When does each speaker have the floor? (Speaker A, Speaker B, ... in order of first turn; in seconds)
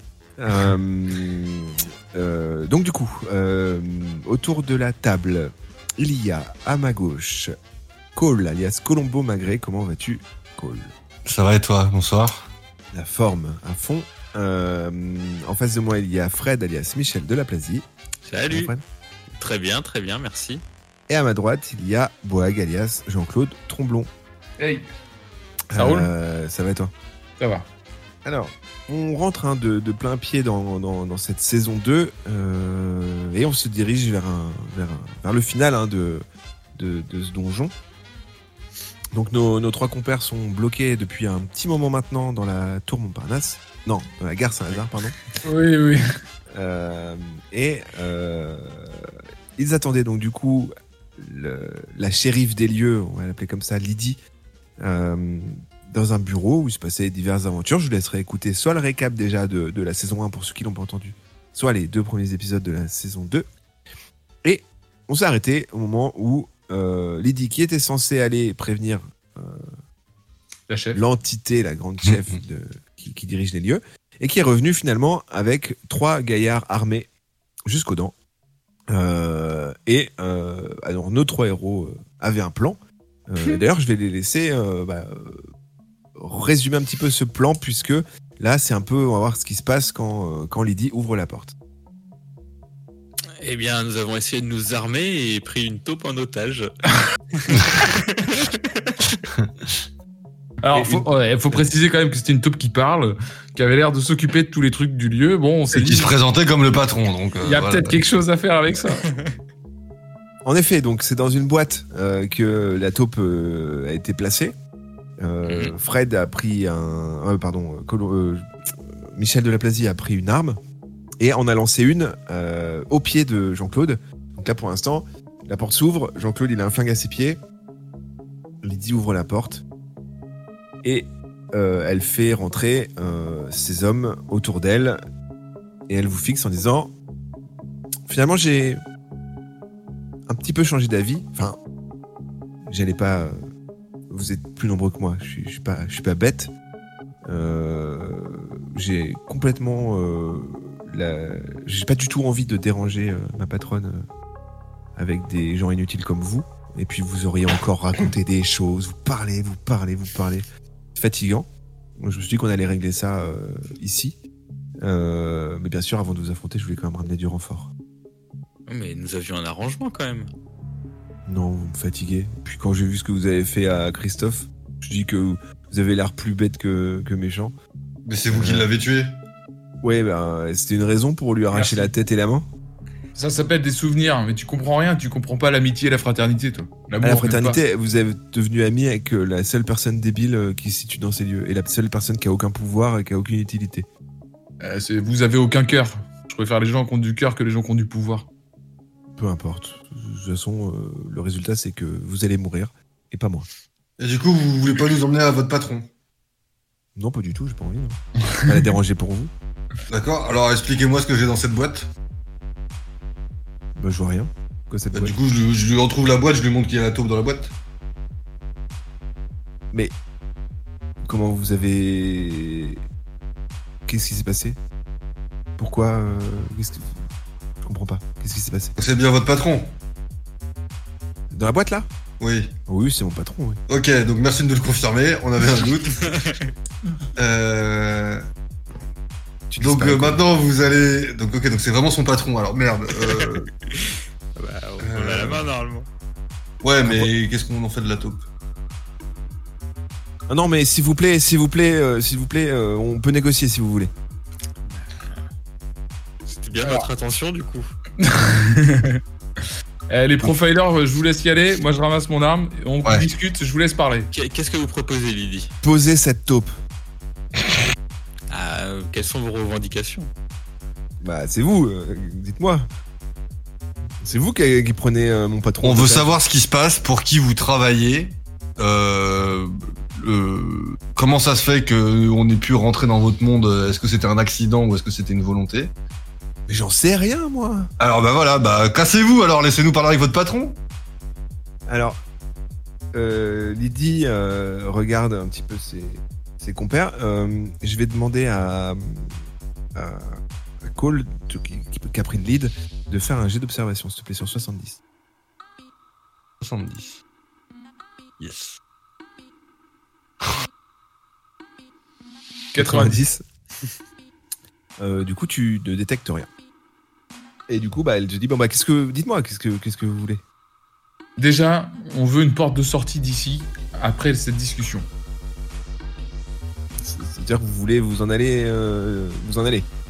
Speaker A: 0.4-7.5, 8.1-10.9, 12.9-17.9, 18.5-18.8, 21.1-24.1, 25.7-26.9, 28.2-36.2, 36.8-37.7, 39.1-45.1, 46.5-54.2, 54.8-63.5, 64.4-69.6, 70.9-77.1, 77.7-78.1, 78.9-85.4, 86.2-91.5, 100.7-101.6, 110.4-114.5, 115.2-120.6, 121.2-127.4, 128.6-129.6, 130.8-135.0, 135.9-136.9, 138.1-138.8, 140.3-141.6, 142.7-143.4, 144.1-146.5, 147.3-154.0, 154.9-160.4, 160.9-161.5, 162.0-164.2, 164.8-167.7, 171.2-177.5, 178.3-178.7, 179.8-182.5, 187.0-193.9, 199.1-203.5, 206.9-209.3, 213.8-215.2, 221.0-222.8, 223.8-224.6, 225.6-226.9, 227.7-228.8, 231.3-231.9, 232.7-233.6, 239.5-240.2, 246.8-247.1, 250.3-253.9, 265.6-266.5, 271.0-272.7, 274.0-276.2, 286.5-287.7, 291.7-292.0, 292.9-299.2, 299.7-304.8, 312.6-313.2, 314.8-316.3, 317.5-320.2, 326.8-329.7
Speaker B: 11.2-12.5, 105.7-108.0, 178.1-179.2, 204.0-205.9, 209.9-211.9, 214.9-217.5, 228.8-229.8, 232.2-232.5, 233.7-236.2, 237.2-238.2, 239.6-243.5, 244.8-245.5, 246.6-248.2, 275.6-285.7, 287.8-290.6, 306.4-307.0
Speaker C: 18.2-18.7, 19.4-20.6, 93.4-96.7, 97.3-99.2, 109.0-109.3, 115.5-115.7, 168.7-170.3, 236.0-236.4, 243.0-245.9, 256.4-257.7, 264.1-265.5, 268.3-270.1, 308.2-308.6
Speaker D: 24.6-24.9, 25.7-26.1, 27.4-27.7, 45.4-46.0, 70.7-71.0, 100.6-106.1, 107.4-109.0, 181.5-181.9, 183.1-187.6, 194.6-198.3, 258.0-259.0, 259.9-264.1, 312.5-313.0, 321.2-324.9